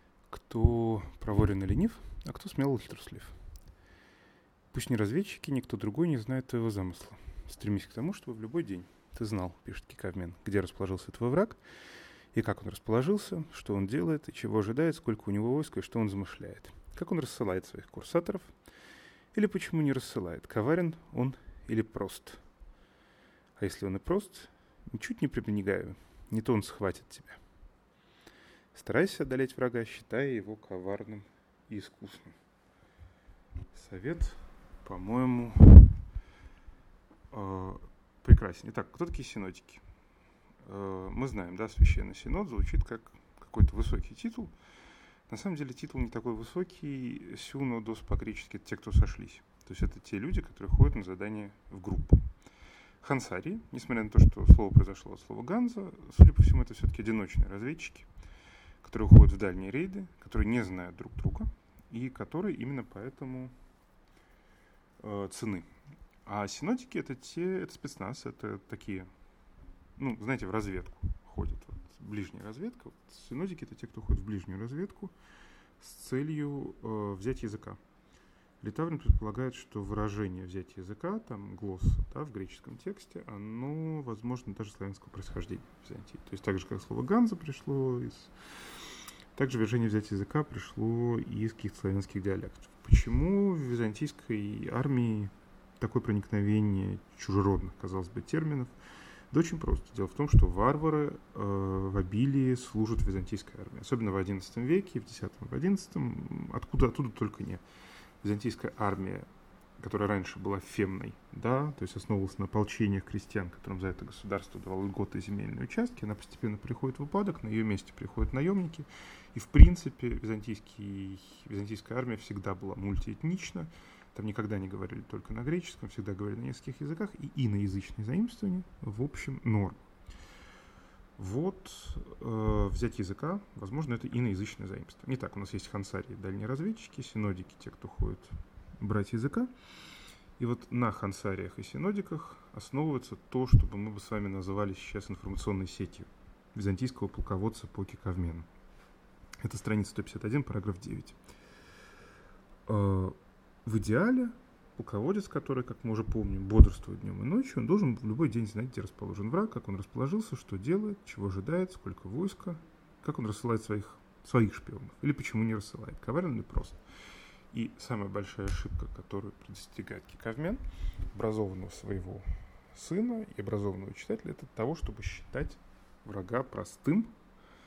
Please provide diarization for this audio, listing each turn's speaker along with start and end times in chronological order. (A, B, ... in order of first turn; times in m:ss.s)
0:00.3-0:03.4 A
0:04.7-0:11.6 A
0:12.3-0:18.5 A
0:19.3-0:22.4 A
0:23.6-0:27.4 A
0:28.7-0:32.4 A
0:33.7-0:36.0 A
0:37.3-0:39.8 A
0:40.6-0:44.5 A
0:45.3-0:52.3 A
0:53.0-0:58.1 A
0:58.8-1:03.5 A
1:05.0-1:05.7 A
1:06.2-1:09.1 A
1:10.0-1:15.1 A
1:15.8-1:17.8 A
1:18.6-1:28.3 A
1:29.3-1:38.7 A
1:39.3-1:47.6 A
1:48.2-1:49.3 A
1:49.8-2:09.8 A
2:11.2-2:19.5 A
2:20.4-2:28.5 A
2:29.4-2:31.2 A
2:32.7-2:46.8 A
2:47.5-2:57.1 A